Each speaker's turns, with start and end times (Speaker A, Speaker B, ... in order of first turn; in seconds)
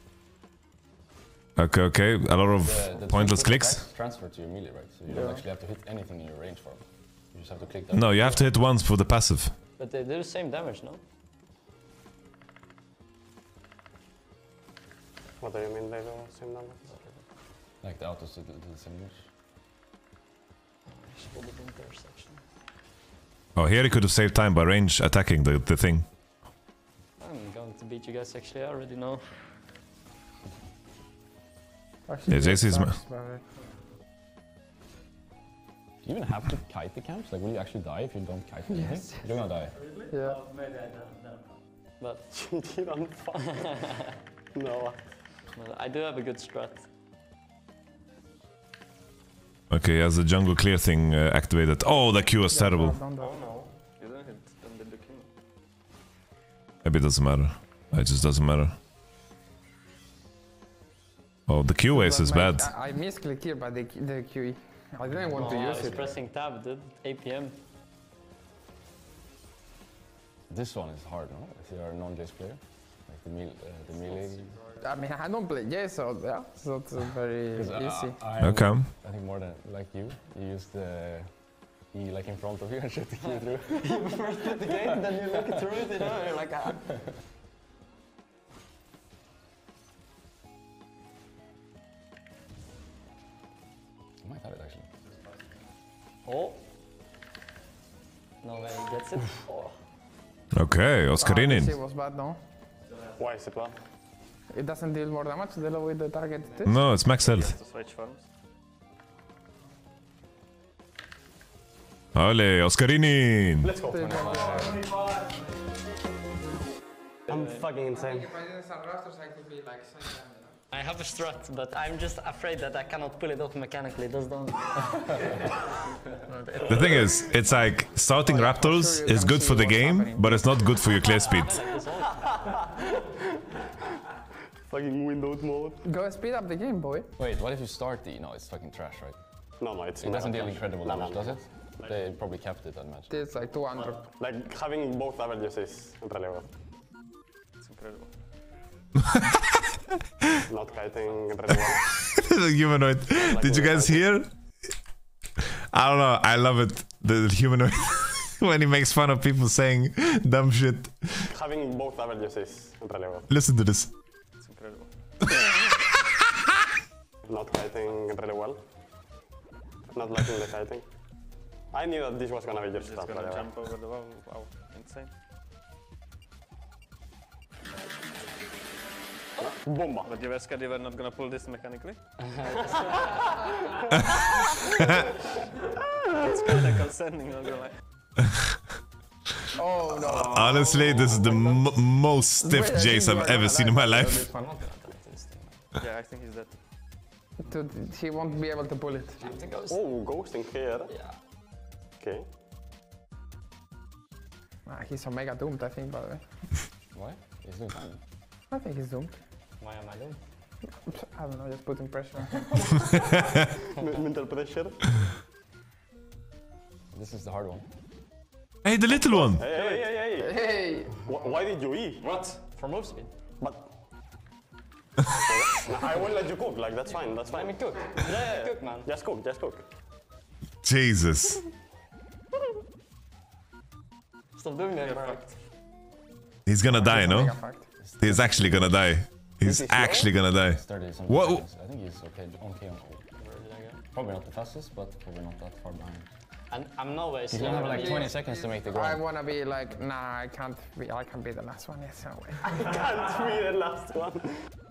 Speaker A: 1.6-3.8, 7.9-9.6, 23.6-26.1, 32.3-33.0, 49.7-53.0, 56.8-58.8, 61.5-62.7, 78.4-78.9, 100.5-101.8, 106.7-107.5, 112.2-113.7, 126.7-131.6, 152.0-154.7, 155.7-161.3, 163.3-163.9, 165.3-165.7, 190.2-194.3, 218.6-219.5, 230.6-231.4, 236.5-237.4, 238.0-241.4
Speaker B: 2.6-8.3, 17.8-19.3, 36.0-39.8, 65.3-66.2, 70.5-74.6, 77.5-81.3, 81.8-84.1, 94.2-94.9, 137.2-139.2, 140.0-143.1, 206.9-208.0, 216.9-217.7, 237.8-243.1, 243.9-246.1, 247.3-249.1
Speaker C: 5.1-5.4, 32.0-33.4, 38.7-39.2, 40.1-40.4, 52.5-53.4, 61.9-66.1, 74.8-78.3, 101.2-102.4, 104.5-106.8, 113.8-114.8, 117.9-120.5, 126.7-127.0, 128.2-130.8, 135.8-137.1, 143.1-144.1, 189.5-191.1, 192.4-194.3, 197.4-199.3, 204.7-206.2, 208.5-209.2, 210.9-212.8, 220.2-221.1, 236.7-237.7, 247.5-252.6
Speaker D: 9.8-11.0, 16.9-17.2, 20.9-22.4, 27.2-29.2, 39.6-42.3, 43.4-44.0, 45.5-46.9, 65.3-67.6, 74.0-74.8, 83.2-87.0, 96.2-96.6, 98.4-99.8, 120.7-125.3, 131.0-132.7, 194.3-195.5, 199.2-199.8, 200.9-201.2, 209.6-210.2, 219.5-219.9, 222.5-223.1, 227.2-228.9, 234.3-235.3, 243.1-243.8, 246.5-248.2
Speaker E: 15.4-17.0, 42.3-43.5, 44.5-45.0, 103.2-103.8, 113.6-114.5, 117.3-118.3, 134.7-135.8, 139.6-141.9, 144.1-146.5, 150.5-151.8, 153.1-154.1, 161.3-163.3, 167.2-168.6, 169.9-170.9, 171.7-173.5, 179.4-180.1, 182.9-183.3, 184.3-184.7, 199.7-200.9, 202.0-202.3, 213.8-214.8, 218.9-220.3, 221.0-222.1, 223.4-223.7, 225.2-229.6, 252.5-254.4
Speaker F: 53.2-55.3, 107.2-108.2, 147.6-148.1, 164.4-164.9, 172.7-175.1, 180.0-182.0, 186.1-187.8, 195.8-196.6, 222.0-222.4, 234.8-235.3